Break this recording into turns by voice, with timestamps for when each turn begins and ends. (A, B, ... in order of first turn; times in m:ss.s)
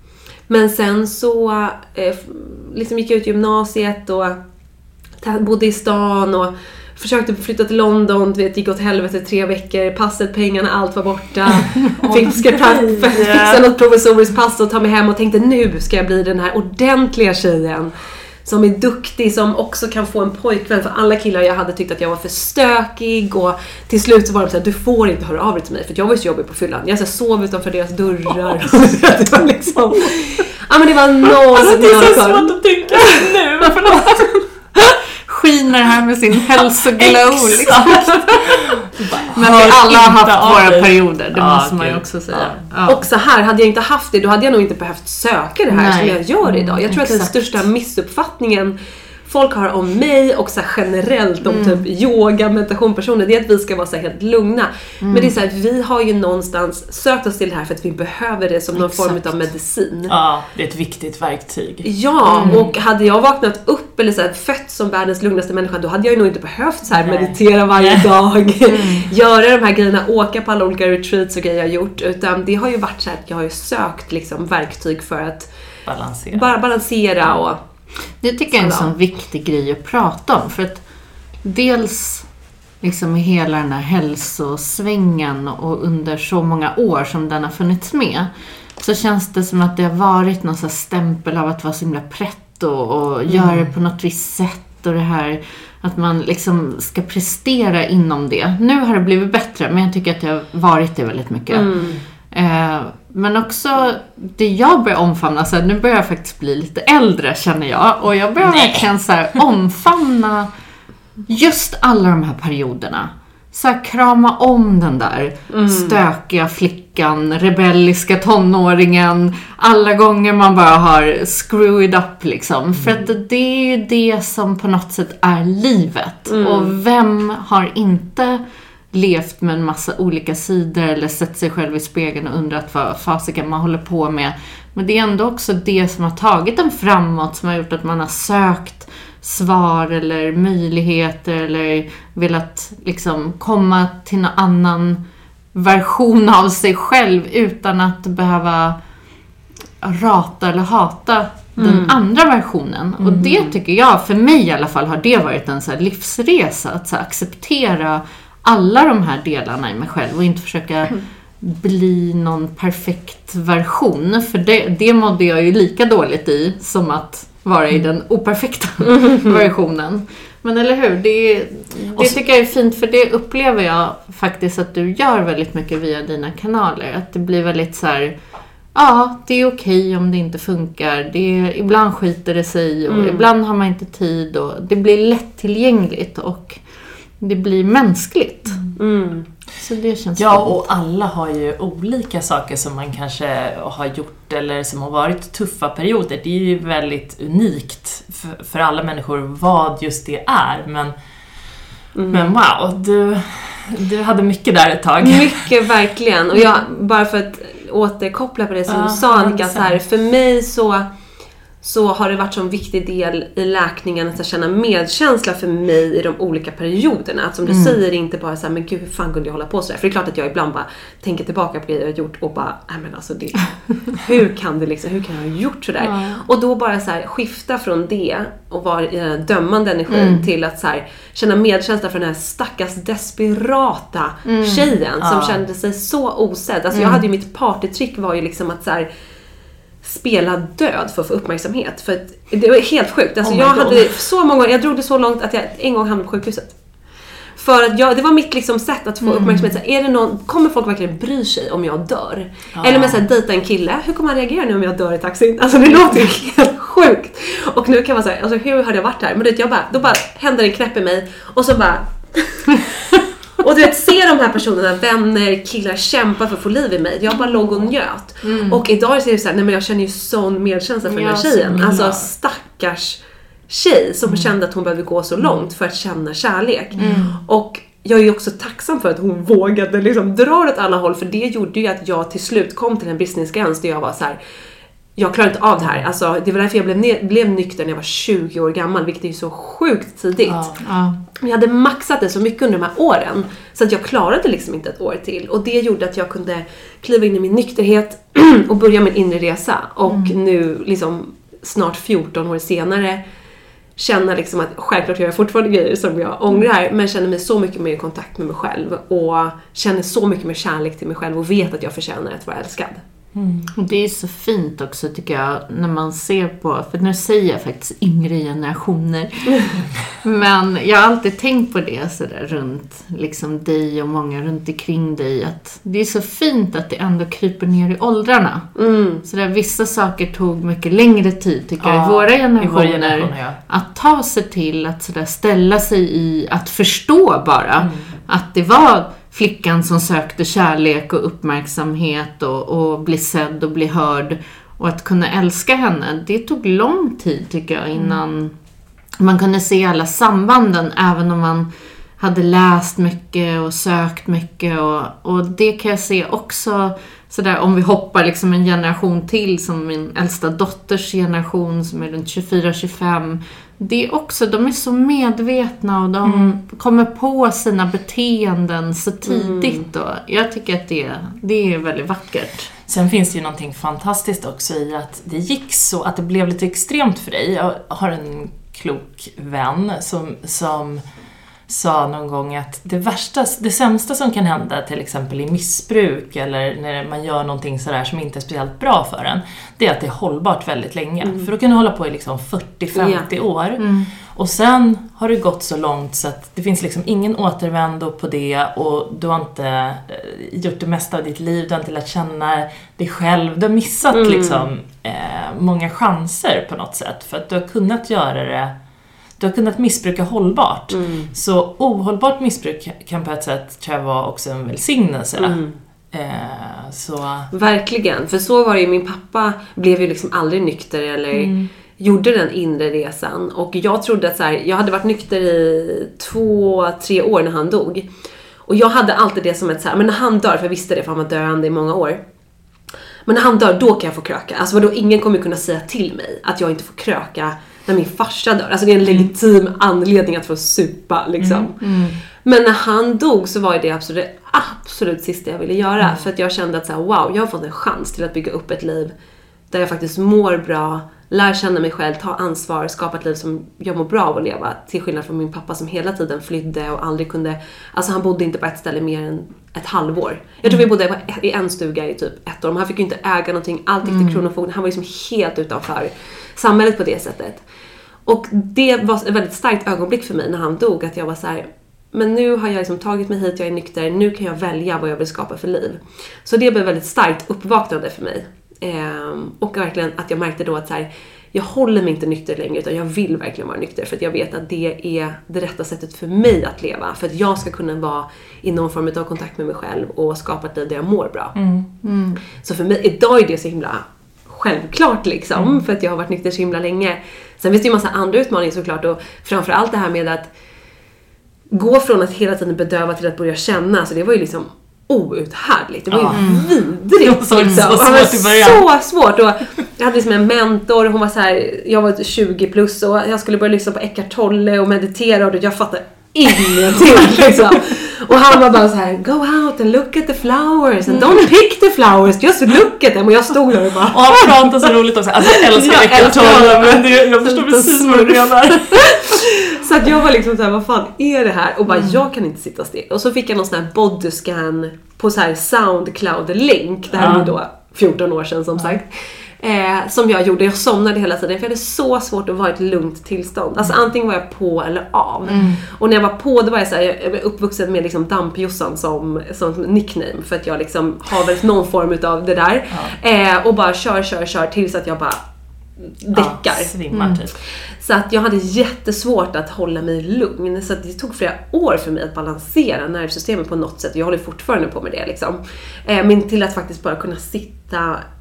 0:00.5-0:04.4 A
0:05.2-0:33.2 A
0:11.5-0:13.6 B
0:28.6-0:28.9 B
0:31.5-0:34.3 B
0:34.0-0:34.2 A
0:35.2-0:43.0 C
0:37.4-0:42.6 B
0:42.9-0:48.7 A
0:45.7-0:47.4 C
0:49.2-1:00.1 A
0:51.4-0:51.8 C
0:55.0-0:55.3 C
0:58.7-0:59.5 C
1:00.1-1:01.9 B
1:01.8-1:15.5 A
1:02.2-1:02.6 C
1:02.4-1:02.7 B
1:06.9-1:08.1 B
1:08.7-1:09.1 C
1:15.9-1:16.5 B
1:16.3-1:17.6 A
1:18.2-1:20.8 C
1:18.5-1:18.9 A
1:21.4-1:22.2 C
1:22.8-1:41.7 C
1:33.3-1:33.7 B
1:41.5-1:41.9 A
1:42.3-1:50.5 C
1:48.4-1:48.9 B
1:51.3-2:25.0 C
1:55.5-1:56.0 A
2:06.3-2:06.7 A
2:25.5-2:28.8 C
2:29.8-2:58.1 C
2:31.6-2:32.0 A
2:33.0-2:33.4 B
2:48.8-2:49.3 A
2:58.7-3:06.6 C
3:02.9-3:03.3 A
3:07.2-3:08.6 C
3:08.8-3:09.3 A
3:09.6-3:10.6 C
3:10.2-3:20.9 B
3:21.9-3:22.3 A
3:22.1-3:25.5 B
3:25.0-3:30.9 A
3:28.7-3:29.8 B
3:31.6-3:58.9 A
3:37.4-3:37.8 C
3:45.8-3:46.2 C
3:49.9-3:50.3 C
3:54.2-3:54.7 C
3:55.0-3:55.4 B
3:56.7-3:57.0 C
3:59.8-4:06.5 A
4:03.2-4:03.9 B
4:07.4-4:22.6 A
4:09.0-4:09.5 C
4:12.6-4:13.0 B
4:23.4-4:44.2 A
4:28.2-4:28.6 C
4:30.9-4:31.9 C
4:31.5-4:31.9 B
4:36.8-4:37.2 C
4:36.8-4:37.0 B
4:45.0-4:50.5 A
4:50.3-4:50.6 B
4:50.6-4:51.0 C
4:51.2-5:03.0 A
4:59.9-5:00.1 C
5:03.8-5:12.8 A
5:13.1-5:13.5 B
5:13.6-5:28.5 C
5:28.6-5:29.0 A
5:29.0-5:48.3 C
5:31.6-5:33.4 B
5:37.6-5:37.9 B
5:49.0-6:12.5 C
6:06.0-6:06.4 B
6:09.0-6:09.6 A
6:12.7-6:20.8 B
6:21.5-6:48.5 B
6:31.0-6:31.3 A
6:32.7-6:33.1 A
6:33.6-6:33.9 C
6:43.9-6:44.5 A
6:49.2-6:55.4 B
6:50.7-6:51.1 A
6:55.2-6:55.6 A
6:55.9-6:57.3 B
6:57.3-7:07.9 A
7:01.1-7:01.5 B
7:08.5-7:12.0 A
7:13.1-7:21.6 A
7:21.2-7:21.4 B
7:21.6-7:22.0 C
7:22.2-7:28.9 A
7:29.5-7:47.4 A
7:43.8-7:44.2 C
7:48.0-8:11.3 A
8:11.3-8:11.7 B
8:11.8-8:12.2 C
8:12.4-8:20.3 A
8:21.5-8:44.3 A
8:25.9-8:26.4 B
8:26.1-8:26.4 C
8:27.0-8:28.6 B
8:43.9-8:48.9 B
8:45.3-8:46.8 A
8:46.2-8:46.7 C
8:47.2-8:48.7 C
8:49.1-9:15.2 A
8:56.9-8:57.3 B
9:05.3-9:05.6 C
9:12.7-9:13.0 B
9:15.9-9:16.7 A
9:16.1-9:17.3 B
9:16.9-9:17.2 C
9:17.8-9:28.0 A